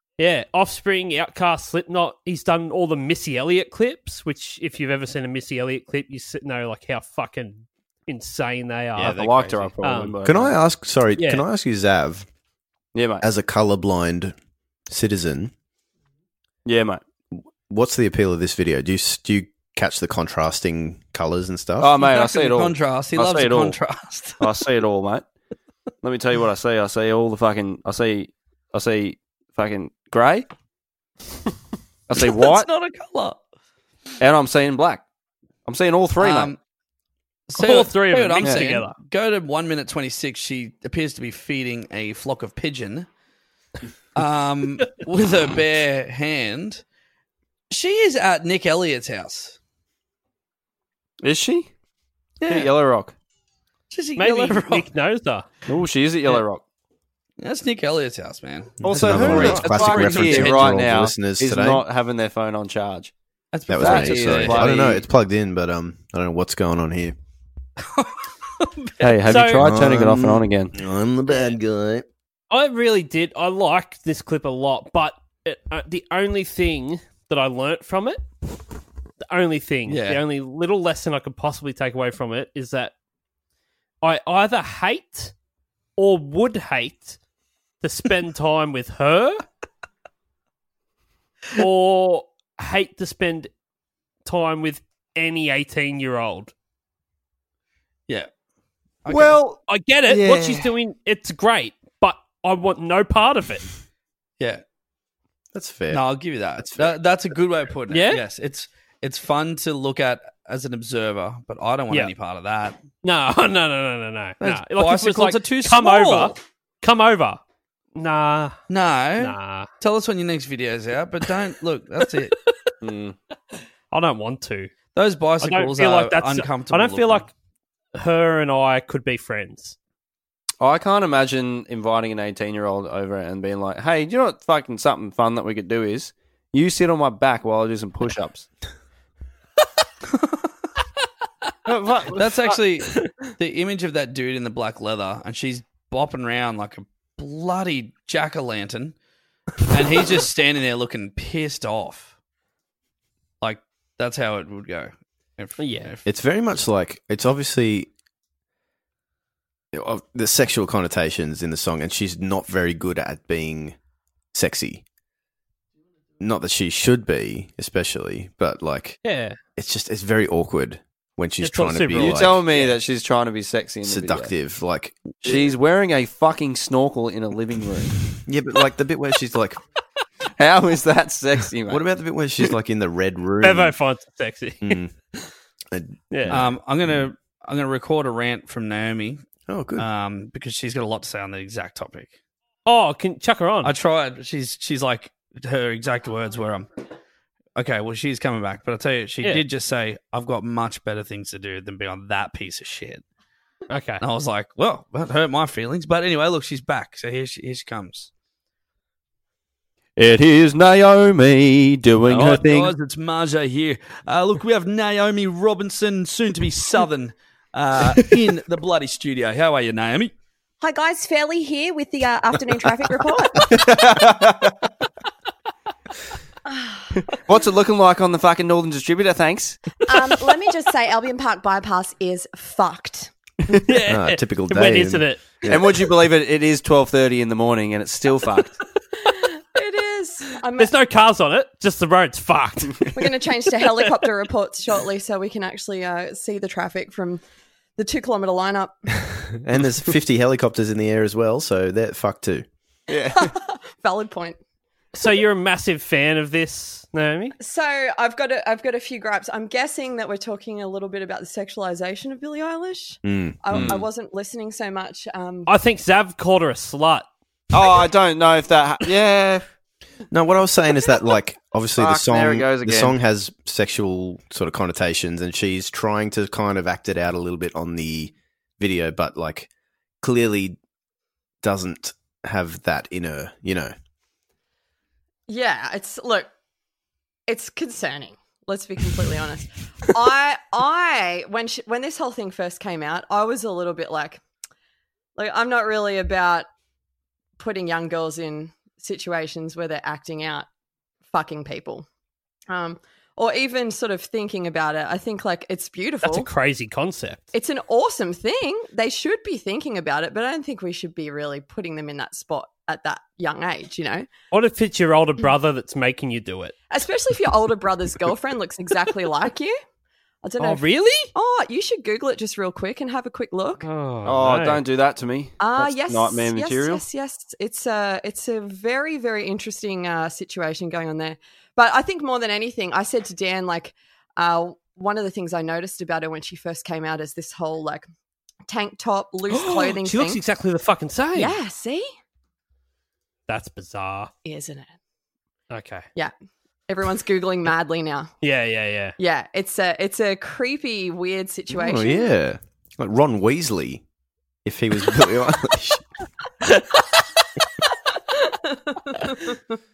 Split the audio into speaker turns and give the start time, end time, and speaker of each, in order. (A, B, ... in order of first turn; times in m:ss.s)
0:00.2-0:10.2 A
0:09.0-0:10.5 B
0:09.0-0:09.7 C
0:10.2-0:12.3 D
0:11.2-0:11.4 A
0:12.9-0:13.2 B
0:13.2-0:14.4 D
0:14.9-0:15.5 D
0:16.7-0:17.0 B
0:17.7-0:21.9 D
0:21.8-0:23.8 B
0:22.0-0:24.5 C
0:24.4-0:25.2 B
0:26.0-0:30.5 B
0:32.1-0:32.7 B
0:32.2-0:33.4 C
0:34.2-0:35.0 B
0:35.7-0:36.5 B
0:36.2-0:36.6 C
0:37.5-0:43.1 C
0:37.6-0:38.9 A
0:44.2-0:46.8 C
0:47.7-0:49.6 C
0:51.2-0:51.7 B
0:52.4-0:52.7 C
0:52.5-0:53.1 B
0:53.9-0:54.9 C
0:54.2-0:55.5 A
0:55.7-0:56.6 B
0:57.4-1:00.9 C
0:58.8-1:01.8 D
0:58.8-1:03.1 B
1:03.5-1:05.0 C
1:03.7-1:07.2 D
1:03.8-1:05.0 B
1:07.9-1:09.2 C
1:09.0-1:10.8 B
1:09.3-1:09.6 A
1:09.6-1:12.1 D
1:12.5-1:18.2 A
1:19.2-1:22.9 A
1:19.9-1:20.2 C
1:24.0-1:25.3 A
1:26.0-1:27.2 A
1:27.8-1:29.4 A
1:31.6-1:33.5 A
1:34.2-1:36.5 A
1:39.0-1:39.4 C
1:39.1-1:40.7 B
1:39.7-1:43.7 A
1:45.5-1:46.1 D
1:45.9-1:52.8 C
1:46.6-1:47.0 D
1:47.9-1:48.2 A
1:53.0-1:57.4 A
1:54.4-1:56.4 C
1:58.0-1:58.6 A
1:58.7-2:02.4 C
1:59.2-1:59.7 A
2:02.8-2:03.2 B
2:03.9-2:04.7 A
2:04.9-2:07.3 C
2:05.4-2:07.3 A
2:08.0-2:09.8 A
2:10.6-2:18.5 B
2:21.7-2:22.3 B
2:22.1-2:29.0 C
2:29.7-2:32.1 C
2:33.4-2:36.0 C
2:35.6-2:35.9 A
2:36.0-2:37.9 D
2:39.7-2:43.8 D
2:44.3-2:44.8 D
2:46.2-2:49.0 D
2:49.0-2:49.4 A
2:49.6-2:52.4 D
2:51.4-2:52.7 A
2:51.9-2:54.3 B
2:53.8-2:55.4 D
2:55.2-2:58.0 B
2:58.2-2:59.6 D
3:00.4-3:01.8 B
3:01.7-3:03.8 D
3:03.4-3:04.8 A
3:04.6-3:04.9 D
3:05.7-3:07.0 D
3:06.1-3:06.4 A
3:06.3-3:09.2 C
3:09.5-3:09.9 D
3:09.8-3:12.1 C
3:12.7-3:13.7 A
3:13.6-3:16.7 C
3:17.6-3:23.0 C
3:23.7-3:24.0 A
3:24.0-3:28.1 C
3:30.0-3:32.7 B
3:32.1-3:40.1 C
3:40.6-3:43.6 E
3:43.5-3:44.5 B
3:46.5-3:47.0 E
3:47.1-3:49.8 B
3:49.9-3:53.1 E
3:53.5-3:55.5 A
3:53.9-3:55.7 D
3:55.5-3:58.6 B
3:59.0-4:00.7 E
4:00.6-4:04.1 A
4:02.9-4:07.2 E
4:07.8-4:08.8 E
4:09.3-4:12.5 D
4:12.9-4:13.3 B
4:13.1-4:14.4 E
4:15.0-4:17.4 A
4:17.4-4:25.5 E
4:23.0-4:23.8 D
4:23.5-4:23.9 B
4:25.5-4:27.1 A
4:27.5-4:29.4 B
4:30.1-4:39.5 D
4:31.8-4:33.0 B
4:40.0-4:40.6 D
4:41.4-4:43.7 D
4:45.3-4:46.3 E
4:47.3-4:54.2 E
4:55.2-4:56.5 E
4:57.4-5:00.5 E
5:01.1-5:01.9 E
5:02.5-5:06.3 E
5:06.0-5:07.2 A
5:07.3-5:14.1 E
5:14.3-5:16.6 A
5:16.7-5:19.6 E
5:20.2-5:23.7 E
5:20.4-5:21.1 A
5:23.6-5:24.6 A
5:24.0-5:26.8 B
5:25.4-5:37.9 E
5:38.5-5:40.2 E
5:39.3-5:41.4 A
5:41.2-5:41.9 E
5:43.3-5:44.1 A
5:44.2-5:44.7 E
5:45.5-5:45.9 A
5:46.7-5:48.1 E
5:48.2-5:49.0 A
5:49.0-5:52.1 E
5:51.5-5:53.8 D
5:54.4-5:55.9 D
5:56.5-5:56.9 A
5:57.9-5:59.6 E